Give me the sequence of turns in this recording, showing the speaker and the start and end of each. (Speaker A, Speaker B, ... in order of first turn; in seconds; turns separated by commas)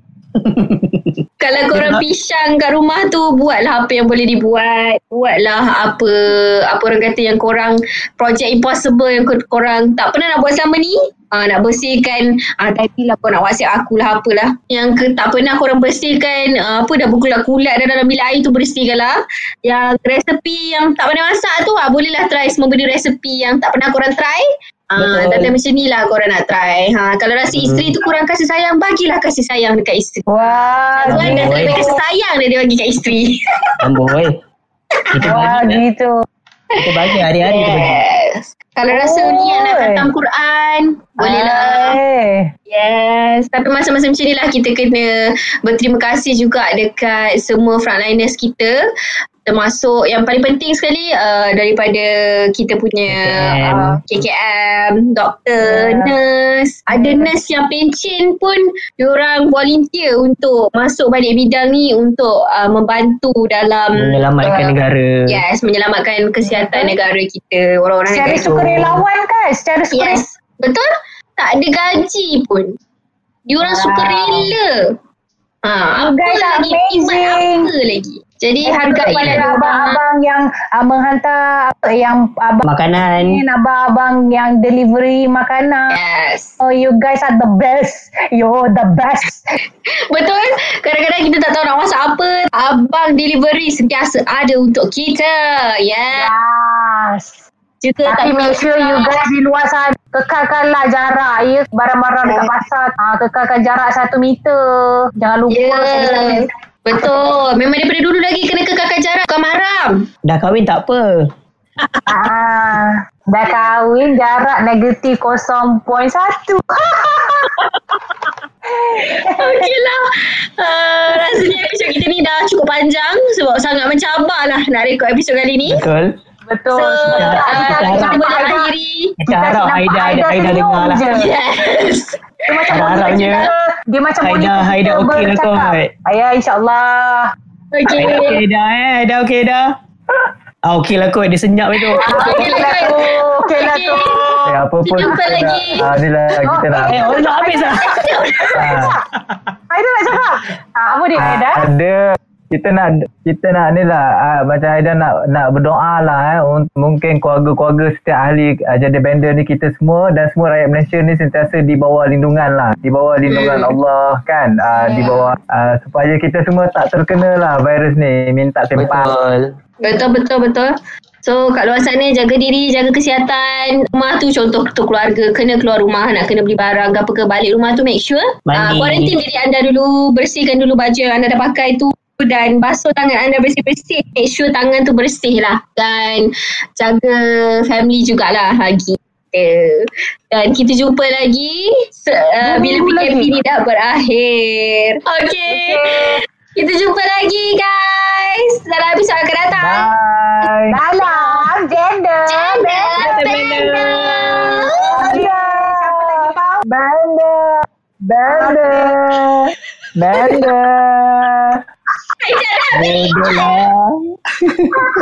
Speaker A: 0.4-1.2, Speaker B: 1.4-34.1, Speaker A: 1.7-2.0, Speaker A: 25.0-25.6, Speaker A: 27.5-27.9, Speaker C: 30.3-32.0, Speaker A: 31.1-31.8, Speaker A: 33.8-34.4, Speaker B: 35.0-35.5, Speaker A: 35.1-35.8, Speaker C: 35.2-36.2, Speaker B: 36.7-42.0, Speaker A: 36.8-38.0, Speaker C: 38.9-40.1, Speaker C: 41.2-42.5, Speaker B: 42.7-48.8, Speaker B: 49.5-64.7, Speaker A: 53.1-53.9, Speaker C: 53.7-54.0, Speaker C: 55.6-56.1, Speaker C: 56.9-57.3, Speaker A: 64.0-65.4, Speaker C: 64.4-64.7, Speaker B: 65.3-68.6, Speaker C: 66.5-66.9, Speaker C: 68.1-70.2, Speaker A: 68.4-69.0, Speaker B: 69.9-72.8, Speaker B: 73.5-74.9, Speaker C: 73.6-74.5, Speaker B: 75.6-80.0, Speaker C: 76.0-77.7, Speaker C: 78.6-86.0, Speaker A: 82.6-83.4, Speaker B: 85.9-86.6, Speaker C: 86.6-89.4, Speaker B: 90.1-96.3, Speaker C: 96.1-97.5, Speaker B: 97.8-99.2, Speaker C: 98.1-107.1, Speaker B: 105.5-110.1, Speaker A: 110.2-111.3, Speaker C: 112.1-117.5, Speaker C: 118.8-119.7, Speaker B: 119.0-125.9, Speaker A: 125.7-126.2, Speaker C: 126.5-128.7, Speaker B: 126.7-129.2, Speaker A: 127.1-128.2, Speaker A: 129.2-131.1, Speaker C: 129.3-131.3, Speaker B: 131.1-133.0, Speaker C: 132.5-137.3, Speaker A: 132.7-133.5, Speaker A: 134.2-135.9, Speaker B: 137.7-138.4, Speaker A: 137.9-139.7, Speaker A: 140.7-142.9, Speaker B: 141.7-145.9, Speaker C: 142.0-145.2, Speaker D: 144.4-147.1, Speaker C: 146.4-148.9, Speaker A: 146.9-148.6, Speaker B: 147.4-148.8, Speaker D: 148.5-149.0, Speaker C: 149.7-151.7, Speaker D: 151.2-169.1, Speaker B: 163.3-163.8, Speaker B: 164.9-165.3, Speaker A: 168.8-169.5, Speaker B: 169.8-170.7, Speaker B: 171.2-199.9, Speaker A: 178.5-179.2, Speaker C: 192.4-193.3, Speaker C: 195.5-196.2, Speaker D: 199.6-200.8, Speaker C: 200.7-203.1, Speaker B: 201.0-201.4, Speaker B: 202.3-204.9, Speaker A: 203.0-204.7, Speaker C: 204.4-206.6, Speaker D: 205.0-211.6, Speaker C: 208.3-209.0, Speaker B: 212.2-213.6, Speaker A: 212.7-214.9